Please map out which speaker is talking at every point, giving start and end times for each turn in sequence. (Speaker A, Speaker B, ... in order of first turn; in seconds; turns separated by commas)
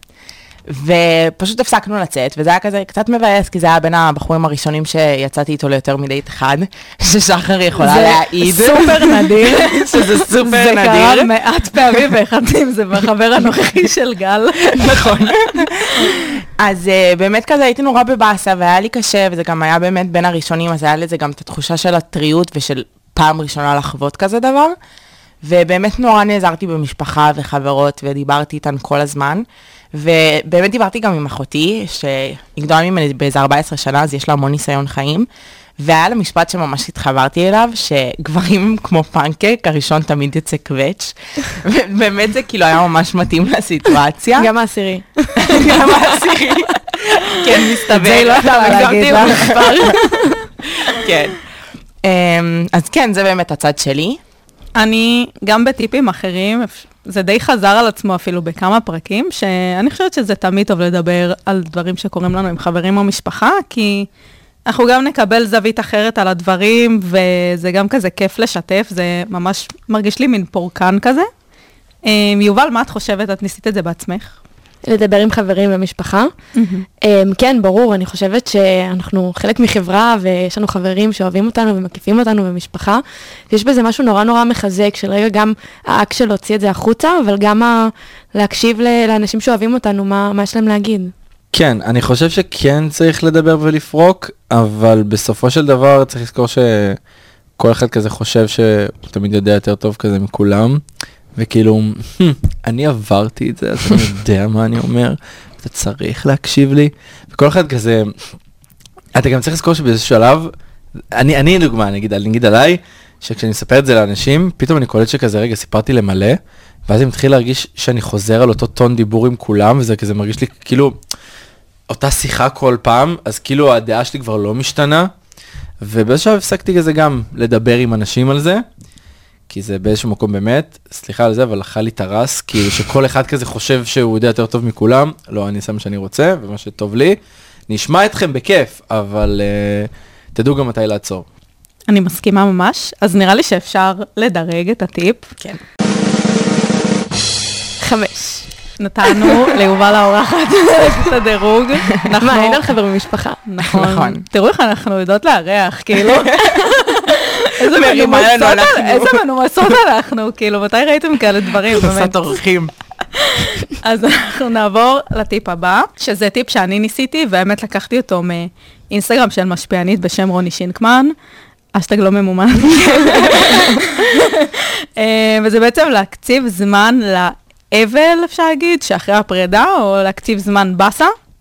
Speaker A: 0.7-11.3, Speaker B: 7.8-15.3, Speaker A: 14.7-24.8, Speaker A: 25.4-35.3, Speaker A: 35.8-44.5, Speaker C: 44.4-46.2, Speaker A: 45.4-50.0, Speaker B: 47.9-50.0, Speaker C: 48.3-50.3, Speaker A: 50.8-51.4, Speaker A: 52.0-54.2, Speaker B: 54.8-64.1, Speaker B: 64.7-71.3, Speaker B: 72.0-74.4, Speaker C: 74.8-76.3, Speaker B: 76.5-76.8, Speaker C: 77.0-91.1, Speaker D: 91.5-97.0, Speaker D: 97.6-100.8, Speaker D: 101.3-108.1, Speaker D: 109.1-110.5, Speaker D: 111.1-121.0, Speaker D: 121.9-125.1, Speaker D: 125.8-128.6, Speaker D: 129.5-141.2, Speaker B: 141.9-145.3, Speaker C: 147.8-148.5, Speaker B: 148.8-152.7, Speaker C: 152.2-153.4, Speaker B: 153.4-162.2, Speaker A: 153.7-154.2, Speaker A: 156.1-156.6, Speaker A: 157.7-159.2, Speaker A: 161.7-162.7, Speaker B: 163.4-171.1, Speaker B: 171.7-181.1